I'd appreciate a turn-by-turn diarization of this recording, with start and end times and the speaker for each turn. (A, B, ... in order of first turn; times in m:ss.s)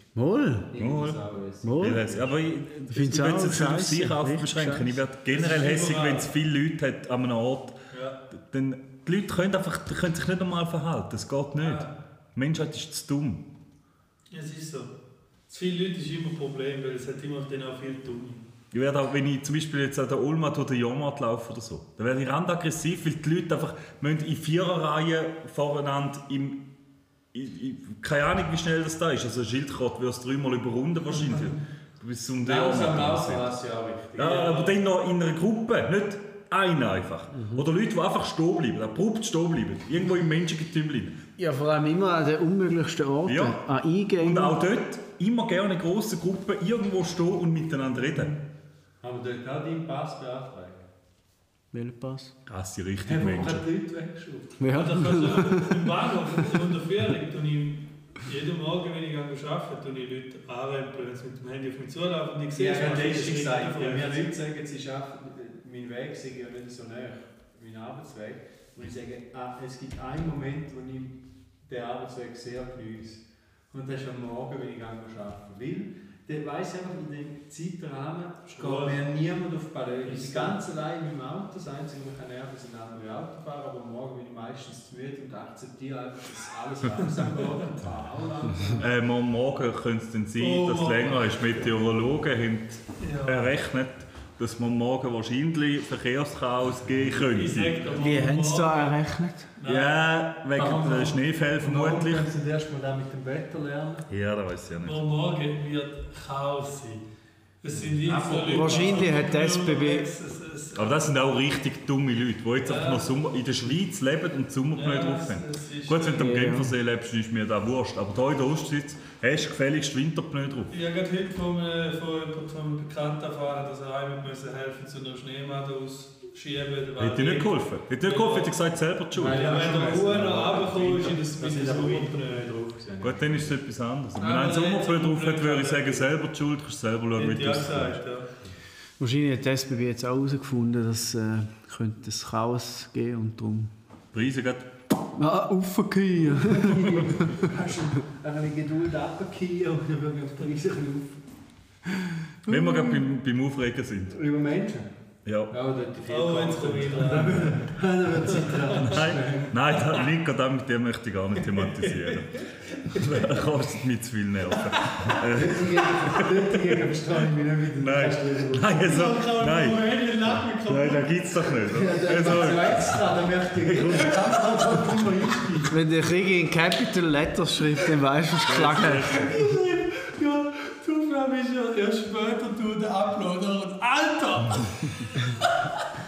0:00.2-0:00.7 A
0:00.7-0:02.4 B
0:00.8-0:01.2 C
0:01.6-0:02.1 A
0:01.8-0:07.8 C
0:02.9-0:05.0 A
0:05.3-0:06.3 D
0:07.9-0:08.2 D
0:08.3-0:13.4 C
0:11.6-0:11.9 D
0:14.3-0:14.9 D
0:15.5-0:18.4 D
0:18.7-0:26.6 C
0:27.3-0:33.5 C
0:32.4-0:34.7 B
0:34.2-0:41.2 C
0:37.3-0:37.7 A
0:41.4-0:44.6 A
0:43.3-0:43.6 C
0:44.2-0:48.4 C
0:49.0-0:50.9 B
0:51.7-0:52.3 A
0:52.5-0:53.6 C
0:53.0-0:54.6 B
0:54.6-0:55.9 A
0:54.7-1:04.3 D
1:02.6-1:28.9 B
1:18.5-1:19.0 D
1:20.0-1:20.6 D
1:28.8-1:38.0 C
1:30.4-1:31.5 D
1:33.0-1:33.5 D
1:37.2-1:39.0 D
1:38.0-1:39.5 A
1:39.6-1:40.0 D
1:39.7-1:42.3 C
1:40.6-1:44.1 B
1:40.6-1:41.1 D
1:44.1-1:45.0 C
1:44.8-1:47.0 D
1:47.6-1:51.1 D
1:48.0-1:49.0 B
1:48.1-1:50.1 A
1:50.8-2:00.7 C
1:52.6-1:53.1 D
1:54.7-1:56.4 D
1:56.1-1:56.7 A
2:00.7-2:08.6 D
2:07.0-2:09.4 C
2:09.1-2:13.6 B
2:09.2-2:12.4 D
2:13.0-2:18.0 C
2:14.2-2:16.1 D
2:17.2-2:18.3 D
2:19.0-2:23.7 A
2:24.1-2:24.7 C
2:25.1-2:27.4 A
2:26.3-2:31.2 B
2:32.5-2:34.2 C
2:32.5-2:32.8 A
2:34.1-2:34.9 B
2:35.2-2:35.5 C
2:35.5-2:39.6 B
2:36.1-2:37.7 D
2:37.3-2:37.5 C
2:38.2-2:39.0 D
2:38.8-2:46.6 C
2:41.5-2:43.2 D
2:44.7-2:45.2 D
2:45.3-2:48.8 B
2:47.8-2:49.8 C
2:48.8-2:51.4 D
2:50.6-2:54.4 C
2:51.7-2:55.8 B
2:55.7-2:59.3 A
2:58.5-2:59.3 C
2:58.6-3:05.7 D